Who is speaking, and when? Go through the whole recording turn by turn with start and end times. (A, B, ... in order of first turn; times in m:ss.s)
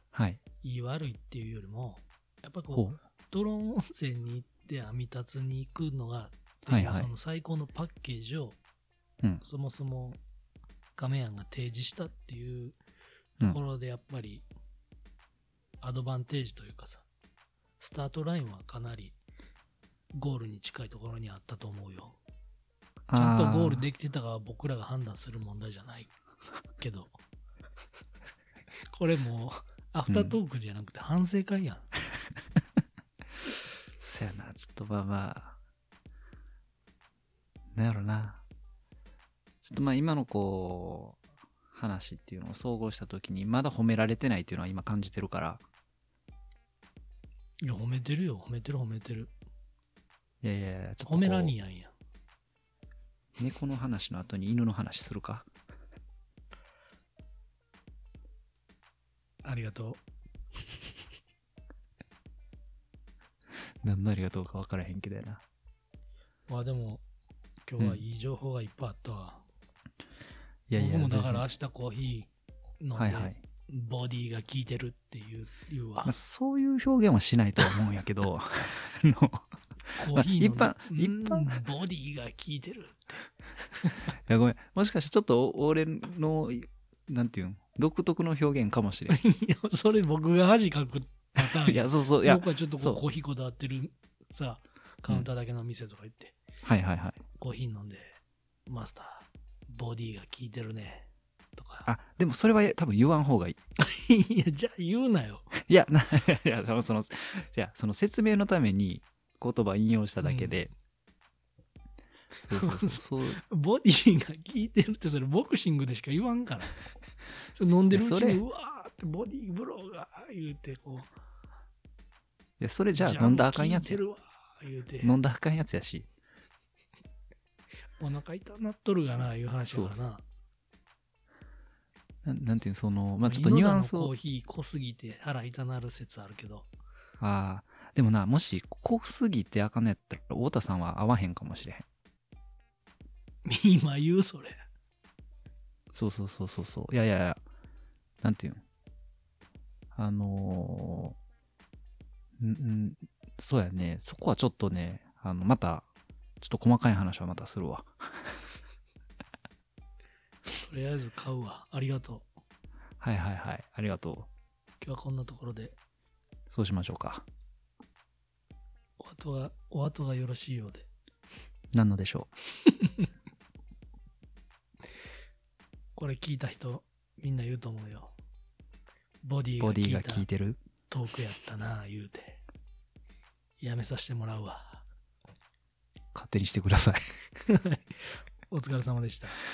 0:00.1-0:00.4 A
0:00.6-0:08.6 B
0:02.7-0:03.0 A
0:06.7-0:07.1 A
0:09.4-0:10.2 B
0:11.0-0:12.8 B
0:13.4-0:14.4 B
0:15.8-0:17.0 B
0:17.8-0:19.2 B
0:20.1-0:22.2 B
0:23.1-0:23.8 A
0:23.1-0:26.1 B
0:26.8-0:27.1 B
0:28.9-0:31.9 B
0:30.1-0:30.4 A
0:34.0-0:35.6 A
0:37.7-0:38.4 A
0:39.6-0:41.2 A
0:41.7-0:45.6 A
0:47.6-0:49.3 B
0:50.4-0:51.5 A
0:51.0-0:51.9 B
0:53.4-0:55.5 A
0:59.4-1:00.0 B
1:03.8-1:05.4 A
1:06.5-1:07.0 B
1:07.6-1:09.4 B
1:10.7-1:11.5 A
1:10.8-1:16.1 B
1:12.9-1:13.4 A
1:16.0-1:21.6 A
1:20.0-1:23.2 B
1:23.8-1:24.1 B
1:24.2-1:29.2 A
1:29.1-1:36.4 B
1:31.4-1:33.0 A
1:36.6-1:37.2 A
1:37.4-1:41.9 B
1:41.8-1:43.6 A
1:43.8-1:45.5 B
1:45.5-1:50.7 A
1:50.2-1:50.6 B
1:52.4-1:53.4 A
1:52.5-1:56.8 B
1:57.5-2:01.1 B
1:57.9-1:58.4 A
2:02.6-2:04.0 A
2:02.9-2:05.1 B
2:05.0-2:06.1 A
2:08.0-2:10.2 B
2:09.6-2:10.0 A
2:12.2-2:14.1 A
2:13.2-2:16.7 B
2:17.2-2:21.8 A
2:23.4-2:24.6 B
2:25.9-2:27.4 A
2:28.2-2:28.6 A
2:29.9-2:31.2 A
2:32.4-2:35.9 A
2:36.4-2:38.4 A
2:40.5-2:42.3 B
2:43.0-2:44.3 A
2:44.8-2:45.7 B
2:46.5-2:47.2 A
2:49.0-2:50.9 B
2:51.7-2:52.3 A
2:56.0-2:58.1 B
2:59.2-3:00.2 B
2:59.6-3:00.6 A
3:00.9-3:02.4 B
3:03.6-3:04.8 B
3:06.1-3:07.1 A
3:07.4-3:09.4 B